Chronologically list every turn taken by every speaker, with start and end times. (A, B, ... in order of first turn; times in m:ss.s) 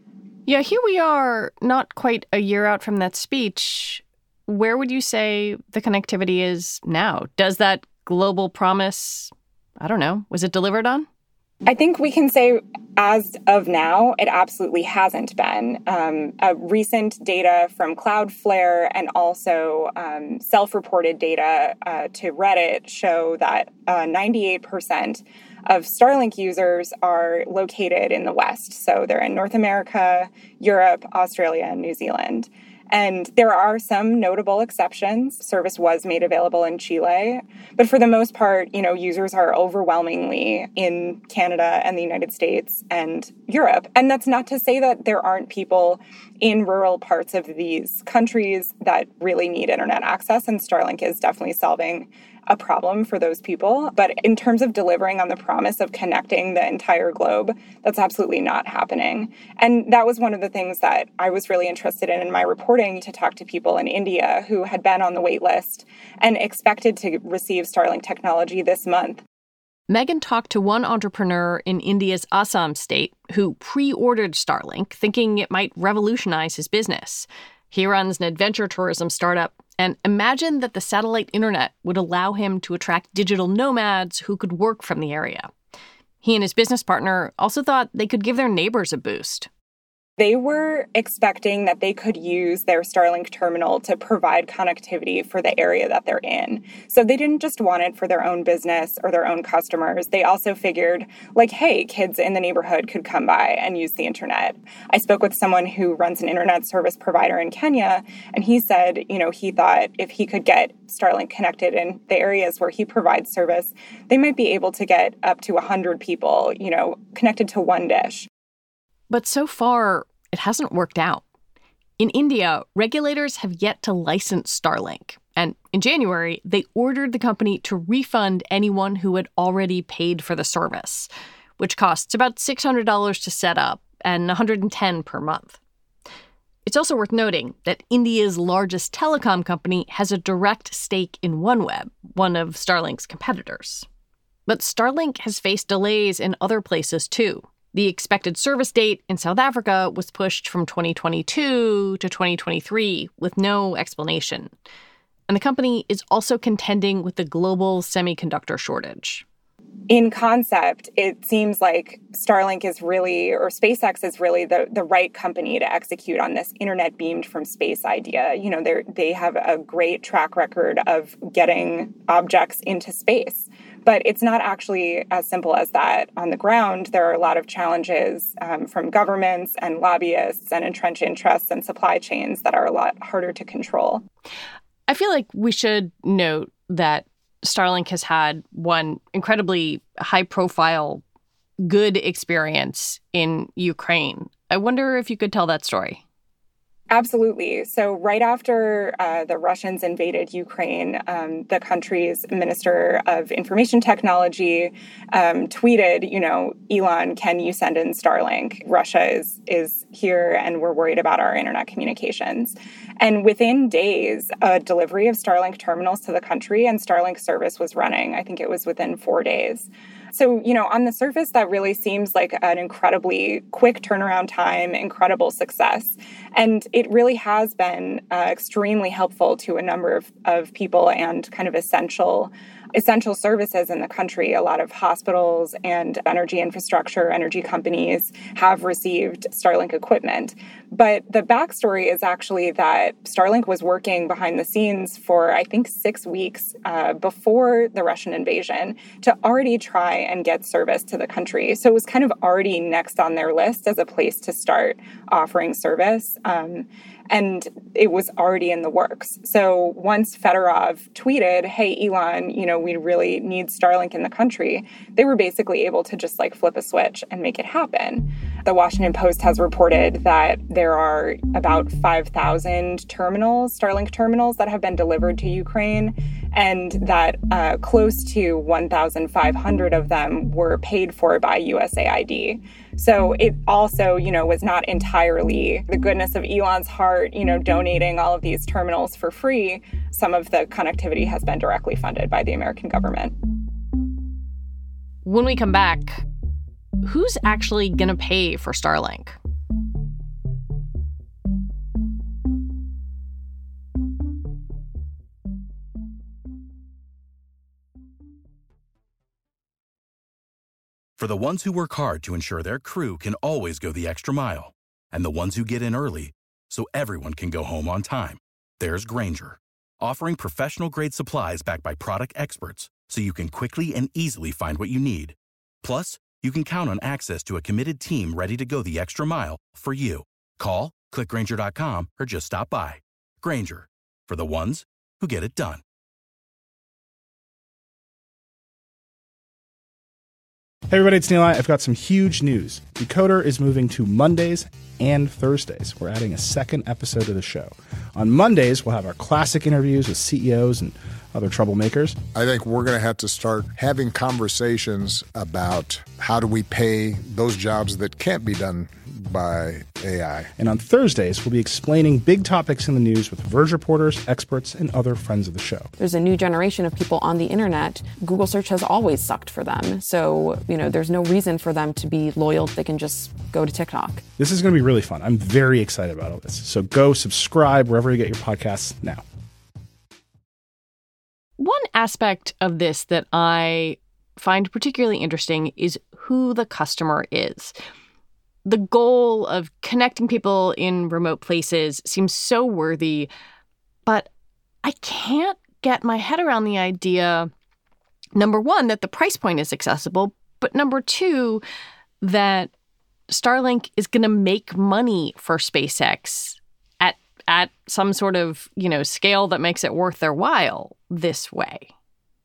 0:00.4-0:11.1 A
0:11.6-1:09.2 B
1:09.9-1:25.5 A
1:26.2-1:29.5 A
1:30.2-1:58.3 B
1:59.1-2:01.2 A
2:02.0-2:15.6 A
2:16.6-2:23.8 A
2:24.5-2:34.5 A
2:35.3-2:39.2 A
2:39.9-3:04.0 B
3:04.9-3:11.0 A
3:11.6-3:16.0 A
3:16.9-4:53.1 B
4:55.0-4:56.0 A
4:56.8-4:59.2 A
5:11.0-5:35.6 C
5:40.7-5:52.0 D
5:52.1-6:00.3 E
6:00.4-6:05.7 D
6:05.8-6:14.0 F
6:14.2-6:19.0 D
6:21.4-6:27.5 A
6:28.4-6:33.1 A
6:34.6-6:37.3 A
6:38.1-6:41.4 A
6:42.0-6:42.5 A
6:43.1-6:51.7 A